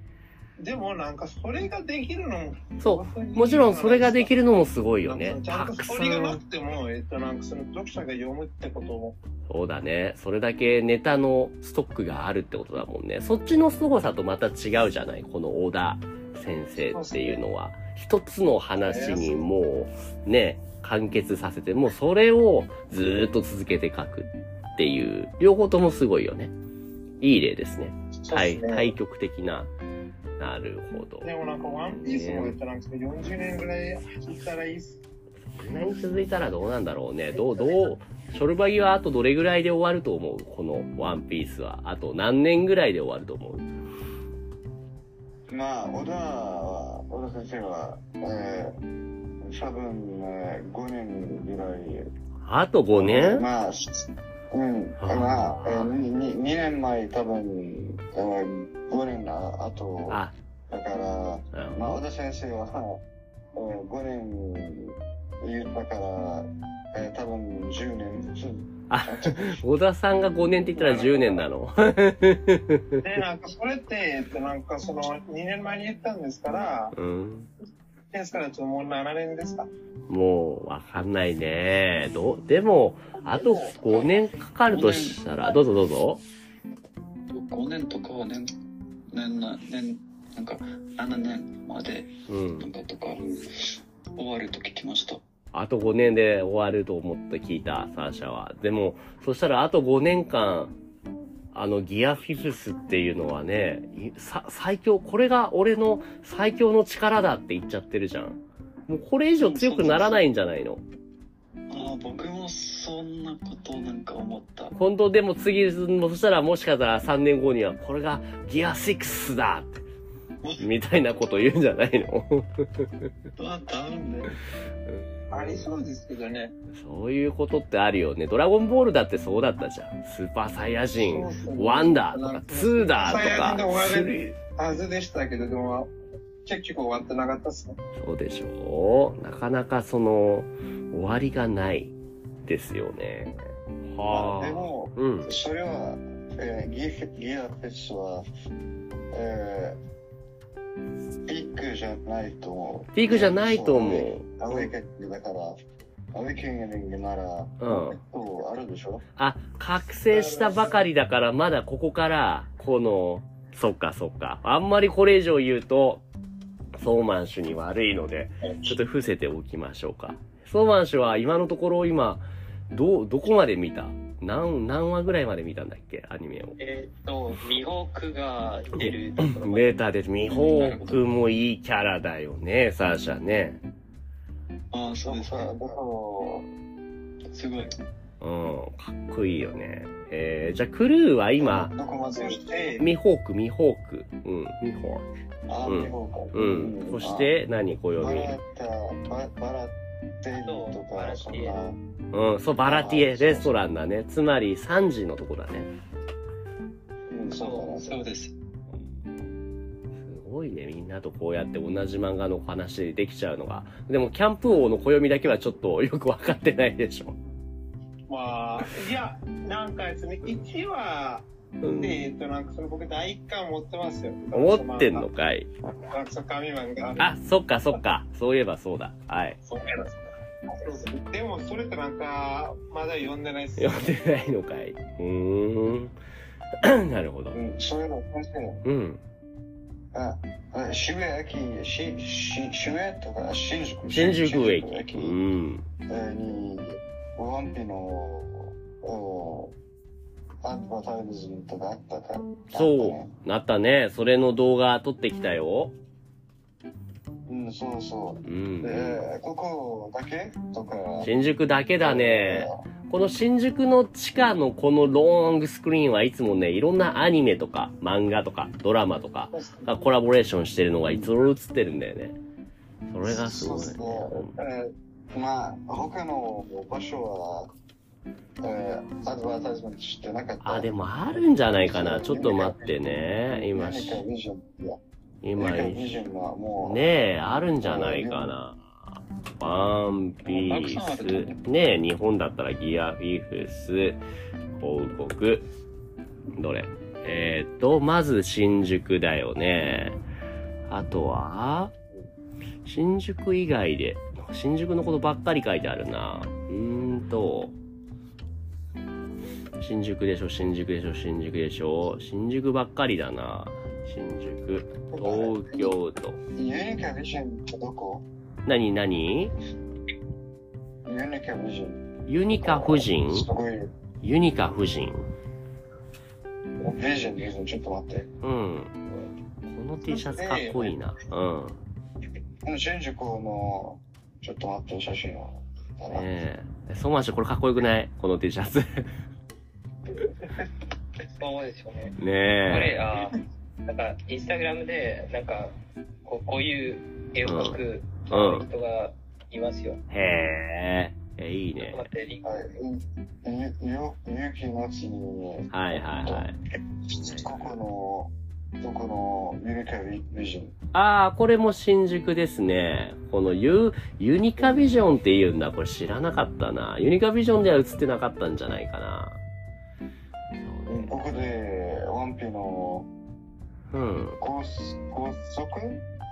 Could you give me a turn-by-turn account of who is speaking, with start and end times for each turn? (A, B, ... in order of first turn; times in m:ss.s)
0:00.6-0:04.4 A
0:02.8-0:06.4 B
0:05.0-0:09.2 A
0:09.5-0:26.5 B
0:16.8-0:17.4 A
0:18.8-0:19.4 A
0:27.2-0:29.7 B
0:28.2-0:28.9 A
0:30.4-0:31.3 B
0:31.2-0:35.0 A
0:31.9-0:32.6 B
0:35.5-0:43.7 B
0:45.5-0:48.8 C
0:49.4-0:52.1 C
0:52.4-0:53.4 B
0:52.9-1:03.0 C
0:55.0-0:55.9 B
1:00.1-1:00.3 B
1:01.5-1:02.0 B
1:03.5-1:09.6 C
1:08.9-1:13.0 B
1:10.8-1:11.4 A
1:13.0-1:16.9 A
1:16.9-1:17.5 B
1:18.1-1:19.7 A
1:20.1-1:26.2 B
1:23.3-1:24.2 A
1:24.7-1:25.2 D
1:27.3-1:28.5 D
1:29.1-1:35.2 D
1:32.3-1:32.7 B
1:35.5-1:40.8 B
1:41.5-1:50.8 B
1:49.4-1:50.2 D
1:51.7-1:54.8 D
1:54.8-1:59.8 B
2:00.4-2:00.7 D
2:00.6-2:03.1 B
2:03.4-2:04.3 D
2:04.8-2:05.7 B
2:05.3-2:06.5 A
2:06.7-2:14.4 B
2:10.9-2:15.9 A
2:16.4-2:17.8 A
2:18.0-2:25.4 B
2:24.1-2:28.3 C
2:29.1-2:29.8 C
2:31.2-2:39.0 C
2:32.9-2:34.7 B
2:37.6-2:38.0 B
2:39.2-2:46.0 B
2:40.1-2:40.8 A
2:46.8-2:56.6 B
2:56.6-2:59.8 E
2:58.8-3:03.6 B
3:00.2-3:01.1 D
3:04.7-3:05.6 D
3:05.0-3:06.5 C
3:07.3-3:07.7 D
3:08.2-3:11.7 B
3:11.4-3:12.8 C
3:12.0-3:12.8 A
3:12.8-3:15.0 B
3:15.5-3:17.3 C
3:15.6-3:18.4 B
3:17.9-3:21.8 C
3:20.3-3:21.6 E
3:22.1-3:25.7 B
3:22.6-3:23.6 C
3:27.1-3:27.9 C
3:27.3-3:27.9 E
3:27.8-3:28.3 D
3:30.0-3:37.2 B
3:38.1-3:41.2 A
3:41.6-3:42.0 B
3:41.8-3:45.1 A
3:44.3-3:45.5 B
3:45.9-3:47.1 A
3:47.0-3:49.4 B
3:49.4-3:53.9 A
3:53.6-3:56.0 B
3:56.6-3:57.4 B
3:57.3-3:58.6 C
3:58.6-3:59.0 B
3:59.9-4:05.2 C
4:03.9-4:05.6 B
4:05.9-4:09.5 C
4:10.4-4:13.1 C
4:12.5-4:15.7 B
4:17.3-4:21.1 C
4:18.2-4:19.0 B
4:21.0-4:32.2 B
4:21.8-4:22.7 C
4:29.3-4:29.7 A
4:32.9-4:34.4 B
4:33.0-4:37.5 C
4:38.4-4:40.7 C
4:40.4-4:44.0 B
4:41.4-4:44.8 C
4:45.2-4:46.0 B
4:45.4-4:46.8 C
4:46.6-4:54.0 B
4:47.6-4:48.3 C
4:50.2-4:51.4 D
4:54.6-4:55.4 B
4:56.4-5:00.0 B
5:00.7-5:01.7 B
5:02.6-5:07.5 B
5:09.6-5:16.2 B
5:14.9-5:15.7 C
5:16.3-5:18.0 C
5:18.4-5:19.3 B
5:20.8-5:23.7 C
5:22.1-5:23.3 B
5:24.0-5:25.0 B
5:26.6-5:28.1 C
5:28.2-5:28.8 B
5:29.4-5:31.6 B
5:29.9-5:30.7 A
5:32.4-5:36.1 C
5:35.9-5:38.9 B
5:41.2-5:49.8 E
5:42.0-5:42.8 B
5:47.2-5:47.6 B
5:48.1-5:48.4 B
5:49.9-5:51.9 B
5:51.6-5:52.5 E
5:52.2-6:00.5 C
5:55.5-5:56.4 B
5:56.9-5:57.6 B
6:00.7-6:09.2 B
6:10.4-6:11.0 B
6:10.7-6:12.9 C
6:13.7-6:14.2 B
6:14.2-6:15.8 C